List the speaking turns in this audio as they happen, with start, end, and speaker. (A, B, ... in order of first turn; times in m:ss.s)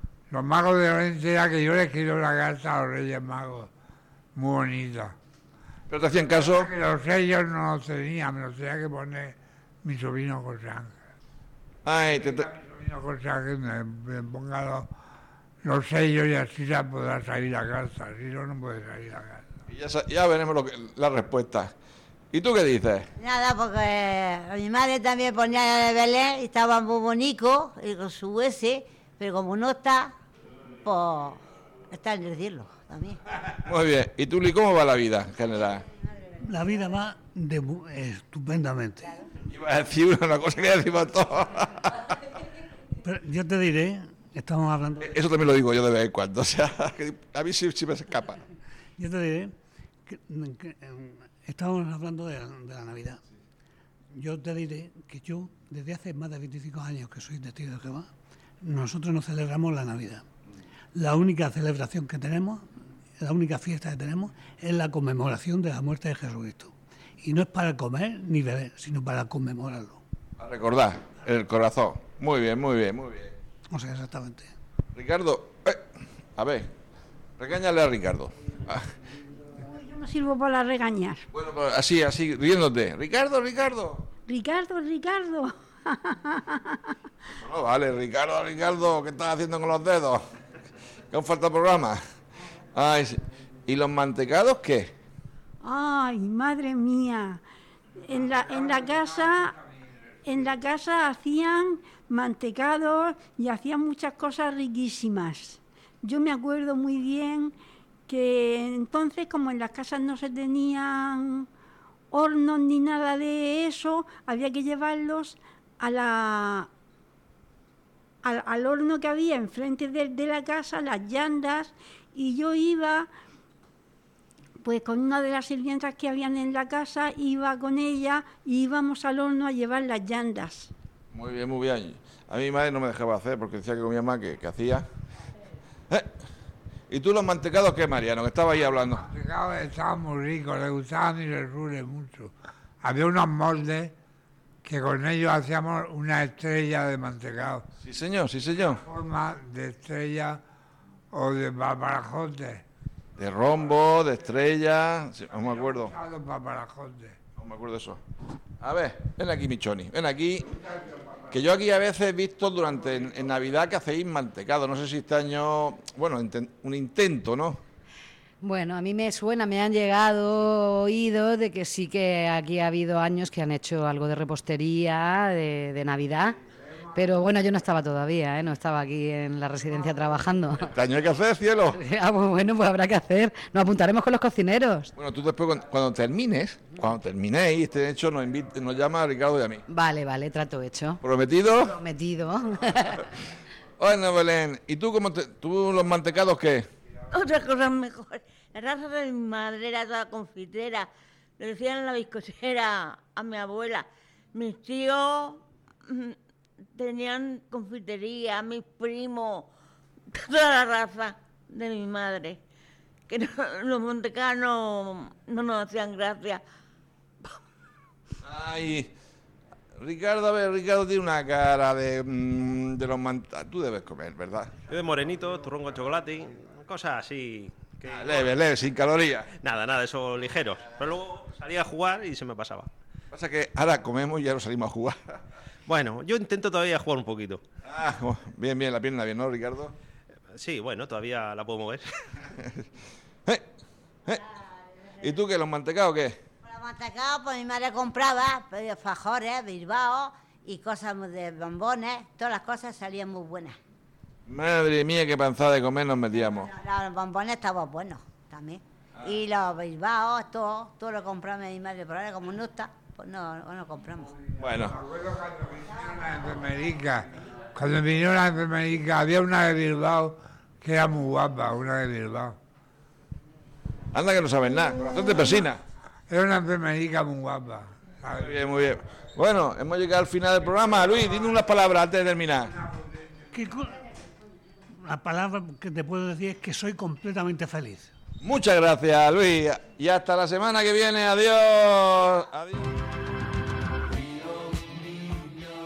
0:00.3-0:03.7 A
0:04.3-0:05.1 A
0:05.9-0:06.7 B
0:06.2-0:11.0 A
0:11.8-0:12.5 B
0:12.1-0:14.9 A
0:15.6-0:19.4 A
0:19.7-0:21.7 B
0:22.3-0:23.1 B
0:23.2-0:30.1 C
0:30.8-0:31.4 C
0:31.9-0:33.2 C
0:33.6-0:35.8 B
0:36.4-0:39.2 D
0:39.4-0:42.2 B
0:43.0-0:45.1 D
0:45.0-0:48.4 B
0:49.0-0:49.5 D
0:50.1-0:53.2 D
0:54.1-0:58.1 D
0:58.6-1:00.2 D
1:00.9-1:02.6 D
1:03.2-1:10.0 D
1:10.4-1:13.3 B
1:13.7-1:14.5 D
1:14.9-1:15.8 B
1:16.4-1:16.7 B
1:17.4-1:18.9 B
1:19.6-1:21.2 E
1:21.3-1:24.0 B
1:24.3-1:26.9 E
1:27.4-1:30.2 B
1:31.1-1:32.0 B
1:32.7-1:34.9 B
1:35.6-1:37.4 E
1:38.0-1:39.6 E
1:40.2-1:47.5 E
1:48.1-1:51.5 E
1:52.1-1:56.7 E
1:58.2-2:03.1 E
2:04.6-2:10.7 E
2:11.1-2:14.8 B
2:16.9-2:19.0 B
2:18.7-2:23.9 A
2:24.6-2:27.7 A
2:27.8-2:28.8 B
2:28.7-2:30.4 A
2:31.1-2:32.6 A
2:33.2-2:35.9 B
2:35.6-2:37.2 A
2:37.4-2:38.0 B
2:38.6-2:40.5 B
2:41.3-2:47.6 B
2:48.4-2:56.4 F
2:56.9-3:00.7 F
3:00.7-3:01.8 B
3:01.7-3:04.9 F
3:05.0-3:09.6 B
3:09.7-3:11.0 F
3:11.0-3:11.8 B
3:11.6-3:13.1 F
3:13.8-3:16.7 B
3:17.1-3:26.2 G
3:26.8-3:29.5 G
3:30.1-3:32.4 G
3:33.1-3:36.4 G
3:38.2-3:38.9 B
3:39.8-3:44.5 B
3:44.7-3:48.3 H
3:47.8-3:49.3 B
3:49.4-3:52.7 H
3:53.1-3:55.2 B
3:55.7-3:57.4 H
3:57.6-3:59.8 B
4:00.3-4:01.9 H
4:05.0-4:06.2 B
4:06.4-4:13.6 C
4:14.3-4:16.5 B
4:16.3-4:24.1 C
4:24.4-4:24.8 B
4:24.6-4:32.4 A
4:33.9-4:35.6 B
4:36.1-4:38.4 A
4:38.1-4:42.5 B
4:42.7-4:43.0 A
4:43.3-4:43.9 D
4:44.8-4:47.9 D
4:48.2-4:52.7 B